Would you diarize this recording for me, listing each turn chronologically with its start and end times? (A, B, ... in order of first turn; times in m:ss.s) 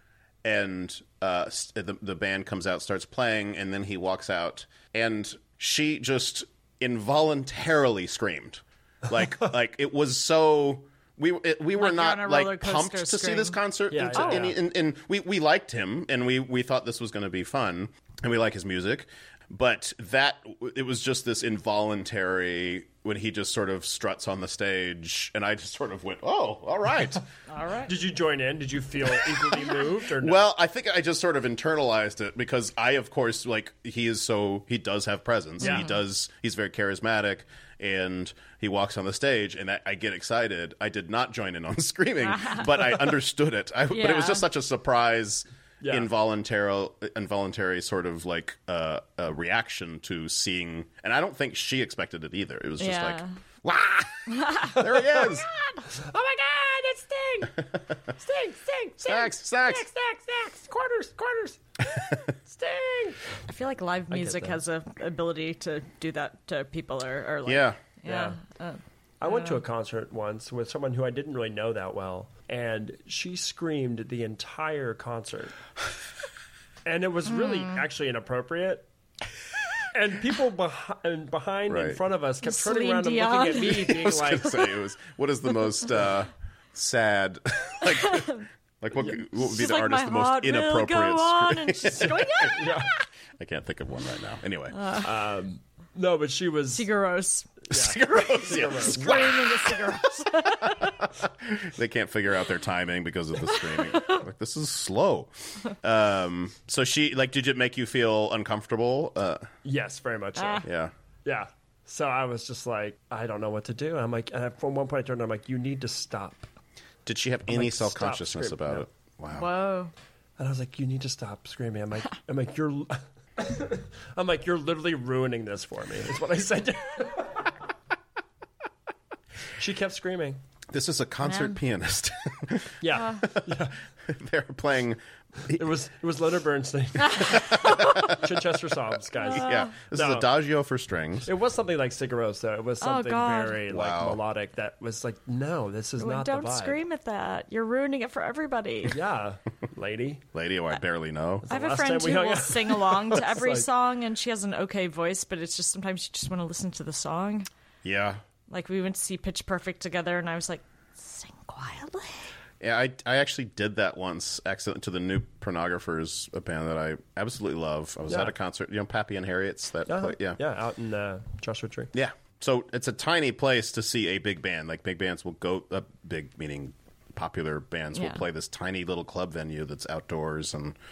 0:00.4-0:27.2 A
0:11.8-0:13.6 B
0:13.9-0:14.6 C
0:14.1-0:14.5 B
0:27.5-0:27.9 B
0:27.9-0:30.4 C
0:30.2-0:55.5 A
0:35.6-0:35.9 B
0:42.2-0:42.7 B
0:43.9-0:44.5 B
0:45.8-0:46.1 C
0:52.8-0:53.4 B
0:54.3-0:54.8 B
0:54.7-1:03.2 C
0:59.0-0:59.8 A
1:03.5-1:09.6 B
1:04.1-1:04.6 C
1:07.4-1:07.8 A
1:08.0-1:08.4 C
1:09.2-1:15.5 C
1:16.8-1:18.9 C
1:19.9-1:24.6 C
1:21.7-1:22.0 A
1:22.4-1:24.0 B
1:23.8-1:32.7 A
1:27.8-1:28.4 B
1:29.3-1:32.9 B
1:32.5-1:32.9 C
1:33.4-1:34.8 A
1:34.7-1:35.1 B
1:35.0-1:36.9 C
1:36.7-1:37.7 B
1:37.7-1:39.4 C
1:37.7-1:39.8 A
1:38.8-1:41.0 B
1:40.6-1:49.5 A
1:43.7-1:44.2 B
1:49.6-1:50.7 C
1:50.4-1:50.6 B
1:50.6-1:50.9 A
1:51.2-1:56.5 C
1:57.0-1:59.5 A
1:57.5-1:58.9 C
1:59.3-1:59.9 B
2:00.4-2:07.4 C
2:09.6-2:10.4 C
2:10.7-2:15.6 A
2:11.2-2:11.6 B
2:12.8-2:13.8 C
2:12.9-2:13.2 B
2:15.5-2:20.3 C
2:17.0-2:18.2 B
2:17.2-2:18.2 A
2:19.1-2:19.7 B
2:19.3-2:21.3 A
2:21.2-2:26.8 C
2:22.8-2:23.6 B
2:23.7-2:24.2 A
2:26.0-2:29.0 B
2:28.9-2:30.2 C
2:30.3-2:31.4 A
2:31.4-2:33.7 C
2:31.5-2:37.5 B
2:37.8-2:38.2 A
2:38.5-2:42.3 B
2:42.6-2:50.4 A
2:48.1-2:48.3 C
2:49.9-2:51.9 C
2:51.9-3:00.8 A
2:57.9-2:58.2 B